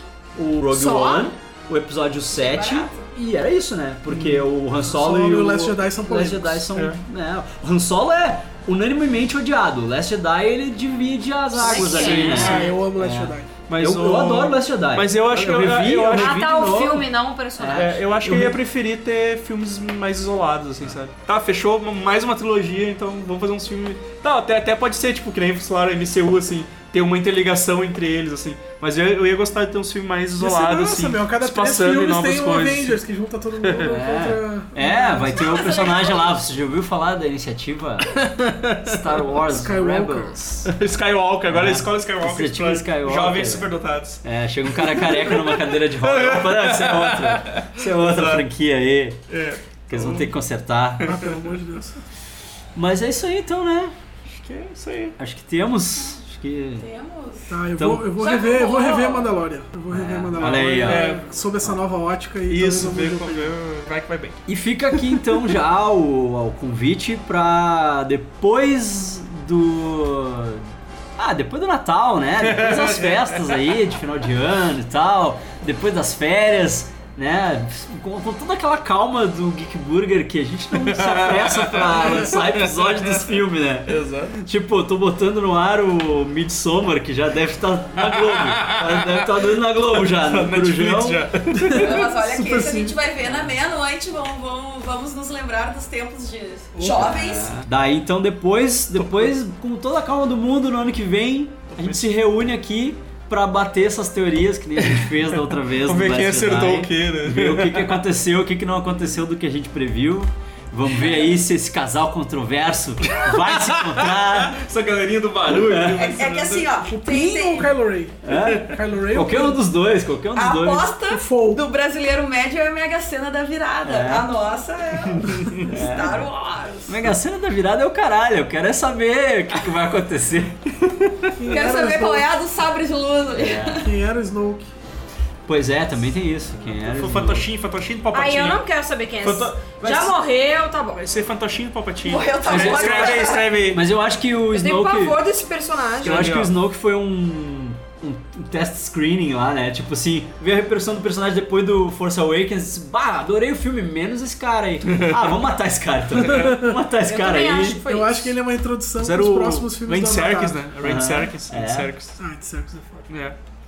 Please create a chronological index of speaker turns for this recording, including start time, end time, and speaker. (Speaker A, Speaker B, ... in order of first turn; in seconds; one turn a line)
Speaker A: 0.3-17.1
Speaker B: 0.8-1.3
Speaker C: 0.8-1.1
Speaker C: 2.3-3.1
Speaker D: 4.1-4.5
Speaker E: 4.8-6.7
Speaker B: 11.5-12.7
Speaker D: 11.6-12.8
Speaker E: 11.9-13.5
Speaker D: 13.7-16.8
Speaker B: 16.1-18.2
Speaker A: 17.6-18.6
Speaker D: 17.7-33.0
Speaker E: 30.4-36.0
Speaker D: 33.6-34.0
Speaker A: 33.8-38.2
Speaker C: 35.4-36.4
Speaker D: 38.1-39.0
Speaker A: 38.8-40.7
Speaker E: 39.5-40.4
Speaker D: 40.7-48.4
Speaker A: 41.5-49.2
Speaker D: 49.3-50.3
Speaker A: 49.9-51.1
Speaker D: 51.0-51.4
Speaker E: 51.0-52.0
Speaker A: 52.8-53.9
Speaker D: 54.3-55.2
Speaker A: 55.2-56.9
Speaker C: 56.0-56.2
Speaker C: 56.8-57.6
Speaker E: 57.5-63.5
Speaker A: 57.8-58.1
Speaker C: 58.1-59.4
Speaker A: 59.9-61.1
Speaker D: 60.4-61.3
Speaker D: 62.5-64.4
Speaker A: 64.5-91.2
Speaker D: 72.4-73.4
Speaker D: 80.8-83.2
Speaker D: 83.9-84.3
Speaker D: 88.1-89.3
Speaker D: 89.9-92.9
Speaker E: 91.7-92.6
Speaker C: 91.8-97.5
Speaker E: 96.8-97.1
Speaker A: 96.8-114.6
Speaker D: 99.0-99.3
Speaker D: 101.7-102.1
Speaker D: 104.8-105.1
Speaker D: 105.8-108.0
Speaker D: 113.2-116.8
Speaker A: 115.5-116.0
Speaker C: 115.9-117.7
Speaker E: 116.9-119.6
Speaker A: 118.2-120.9
Speaker C: 120.3-127.0
Speaker E: 121.1-121.6
Speaker A: 123.8-124.3
Speaker D: 125.2-125.6
Speaker A: 125.7-126.2
Speaker A: 126.9-131.1
Speaker E: 131.4-132.3
Speaker C: 131.5-133.9
Speaker A: 133.3-133.8
Speaker E: 133.8-134.7
Speaker A: 135.5-137.5
Speaker D: 136.7-138.6
Speaker B: 138.1-141.1
Speaker D: 139.2-140.1
Speaker D: 141.0-143.8
Speaker C: 142.0-143.6
Speaker A: 142.5-145.2
Speaker B: 144.5-146.4
Speaker D: 146.0-146.5
Speaker A: 146.0-157.8
Speaker D: 154.8-155.3
Speaker E: 156.2-156.6
Speaker D: 156.2-156.6
Speaker B: 157.0-158.4
Speaker E: 157.8-160.6
Speaker A: 159.0-159.7
Speaker D: 159.0-162.2
Speaker A: 160.8-161.9
Speaker E: 162.2-163.1
Speaker D: 163.1-163.4